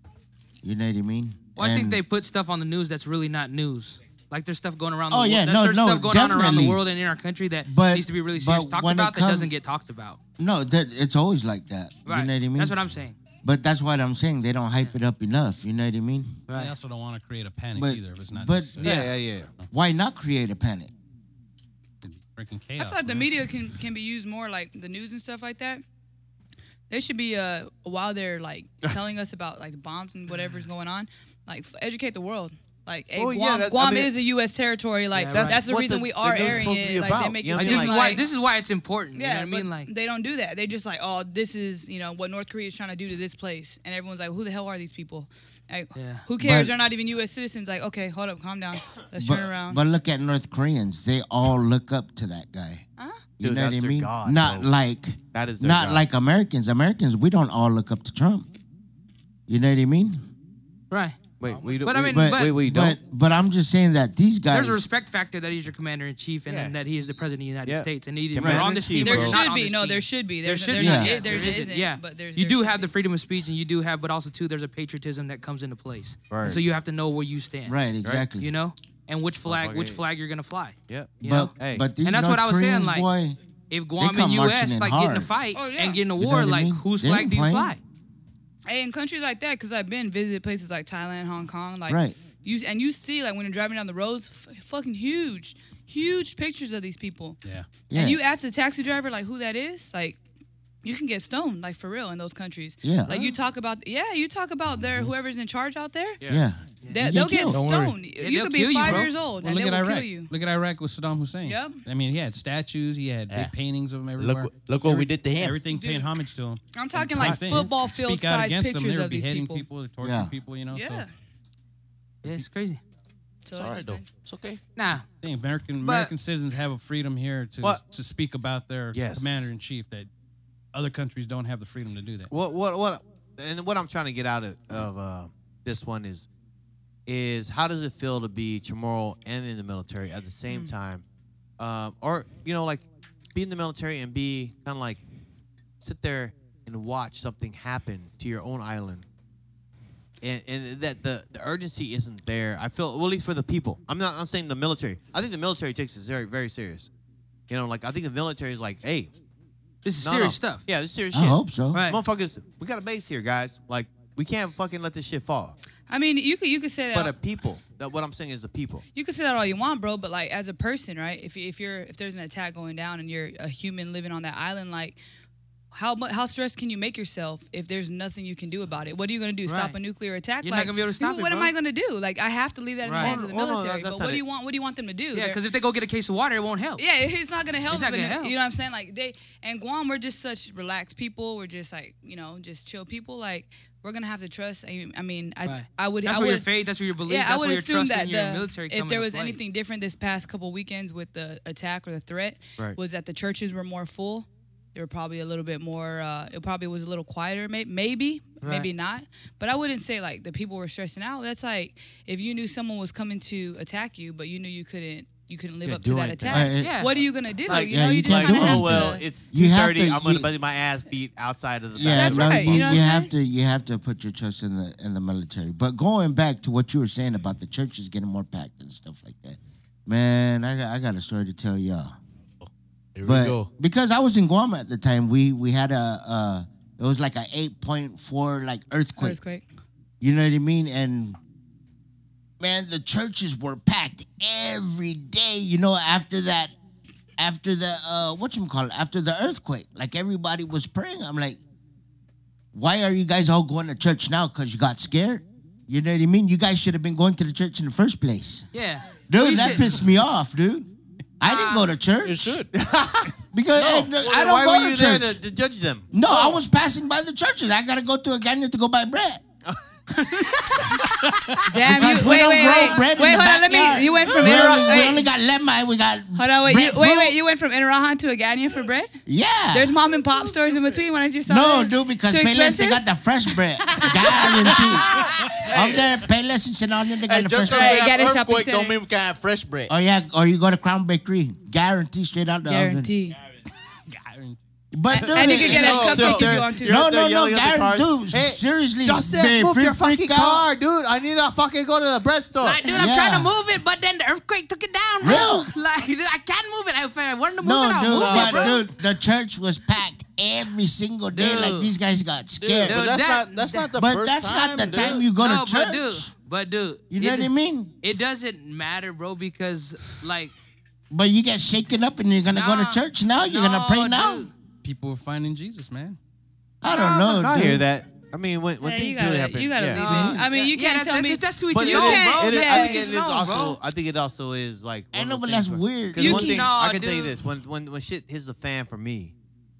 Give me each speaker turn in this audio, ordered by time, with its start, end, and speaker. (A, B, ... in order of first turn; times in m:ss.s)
0:00.6-0:02.0 A
0:01.6-0:10.2 B
0:05.1-0:06.8 A
0:07.6-0:09.5 A
0:10.4-0:12.9 A
0:12.1-0:13.2 B
0:13.4-0:16.3 A
0:16.5-0:16.8 B
0:16.5-0:18.9 C
0:17.8-0:18.8 A
0:18.8-0:19.1 B
0:18.8-0:19.5 D
0:19.7-0:20.9 A
0:22.0-0:23.4 C
0:22.8-0:25.8 E
0:26.9-0:38.3 E
0:30.3-0:30.6 C
0:33.2-0:34.1 D
0:35.1-0:35.6 B
0:35.3-0:38.2 D
0:37.5-0:39.9 B
0:39.2-0:49.8 E
0:45.9-0:46.3 B
0:46.4-0:46.8 A
0:49.2-0:52.8 A
0:53.0-0:53.3 E
0:53.4-0:58.5 A
0:53.4-0:54.7 D
0:55.3-0:56.0 D
0:59.5-1:00.2 A
1:00.9-1:02.6 B
1:01.4-1:03.0 D
1:02.1-1:04.8 A
1:04.5-1:17.8 B
1:06.5-1:06.8 D
1:07.7-1:09.4 D
1:09.0-1:12.9 E
1:10.8-1:11.2 A
1:16.3-1:16.6 D
1:17.7-1:18.5 A
1:18.4-1:21.5 B
1:19.4-1:20.0 D
1:20.9-1:21.9 D
1:21.2-1:23.4 A
1:22.0-1:23.1 B
1:23.7-1:27.8 B
1:24.0-1:25.3 A
1:25.5-1:26.0 E
1:26.2-1:27.8 A
1:28.7-1:37.4 E
1:31.9-1:32.2 A
1:37.9-1:38.2 A
1:37.9-1:40.2 E
1:40.8-1:46.2 E
1:42.8-1:43.3 A
1:44.7-1:45.1 C
1:46.3-1:47.6 A
1:46.9-1:50.3 E
1:47.5-1:48.0 F
1:48.2-1:49.1 B
1:48.8-2:01.0 C
1:51.4-1:51.8 E
1:54.2-1:55.6 F
1:55.7-1:56.2 E
1:56.7-1:59.7 E
1:57.1-1:57.7 D
2:00.0-2:00.3 A
2:00.7-2:01.1 E
2:02.2-2:02.8 B
2:03.4-2:04.1 E
2:03.5-2:04.6 F
2:04.8-2:05.1 B
2:05.2-2:10.1 C
2:05.8-2:06.1 B
2:08.9-2:09.5 D
2:10.7-2:12.3 C
2:12.3-2:16.3 D
2:17.1-2:21.0 D
2:21.6-2:25.0 D
2:25.8-2:29.0 D
2:30.2-2:36.9 D
2:37.5-2:39.1 D
2:39.8-2:40.6 B
2:40.0-2:45.6 D
2:41.1-2:41.8 A
2:41.7-2:42.0 B
2:45.9-2:47.2 E
2:46.9-2:48.8 D
2:49.0-2:55.0 E
2:55.7-3:05.4 E
2:59.5-2:59.8 B
3:00.4-3:01.5 B
3:02.8-3:03.2 B
3:03.0-3:04.2 D
3:05.1-3:06.8 B
3:06.8-3:16.5 E
3:07.7-3:08.3 B
3:15.4-3:19.4 B
3:17.0-3:39.0 E
3:28.4-3:28.7 B
3:35.6-3:36.5 D
3:36.3-3:36.8 A
3:36.6-3:37.0 B
3:37.5-3:42.9 D
3:37.6-3:40.3 A
3:41.8-3:51.9 A
3:41.9-3:43.1 E
3:52.4-3:53.5 F
3:53.0-3:59.2 A
3:59.0-3:59.4 E
4:00.0-4:01.2 A
4:02.4-4:06.6 A
4:07.2-4:11.4 A
4:12.5-4:18.5 A
4:18.5-4:19.7 B
4:19.1-4:20.7 A
4:21.2-4:22.4 A
4:21.2-4:21.7 B
4:22.0-4:22.5 F
4:22.5-4:25.9 D
4:23.3-4:25.2 A
4:25.9-4:29.2 A
4:30.0-4:30.9 B
4:31.1-4:31.3 C
4:31.5-4:35.1 E
4:31.6-4:37.2 A
4:36.2-4:39.0 E
4:39.1-4:39.8 A
4:39.5-4:42.8 E
4:41.3-4:47.8 A
4:43.8-4:45.3 B
4:47.1-4:49.7 F
4:47.4-4:48.8 E
4:49.7-4:52.9 A
4:52.4-4:53.2 E
4:53.9-4:54.4 C
4:54.7-4:55.9 A
4:54.9-4:56.8 E
4:55.2-5:02.7 D
4:55.4-4:56.3 F
4:56.6-5:00.5 A
5:02.4-5:08.6 B
5:02.6-5:03.3 A
5:05.0-5:05.5 A
5:07.4-5:12.8 A
5:07.9-5:08.6 F
5:11.1-5:11.7 B
5:12.4-5:15.0 F
5:12.6-5:13.7 B
5:13.8-5:16.1 A
5:14.8-5:20.3 B
5:16.9-5:17.7 A
5:20.9-5:24.3 A
5:22.3-5:24.3 B
5:24.6-5:26.0 C
5:26.6-5:27.7 A
5:26.7-5:27.1 E
5:27.1-5:30.1 D
5:28.6-5:32.9 E
5:29.8-5:33.6 B
5:31.5-5:39.1 D
5:34.9-5:36.5 A
5:36.0-5:36.5 E
5:36.0-5:37.2 B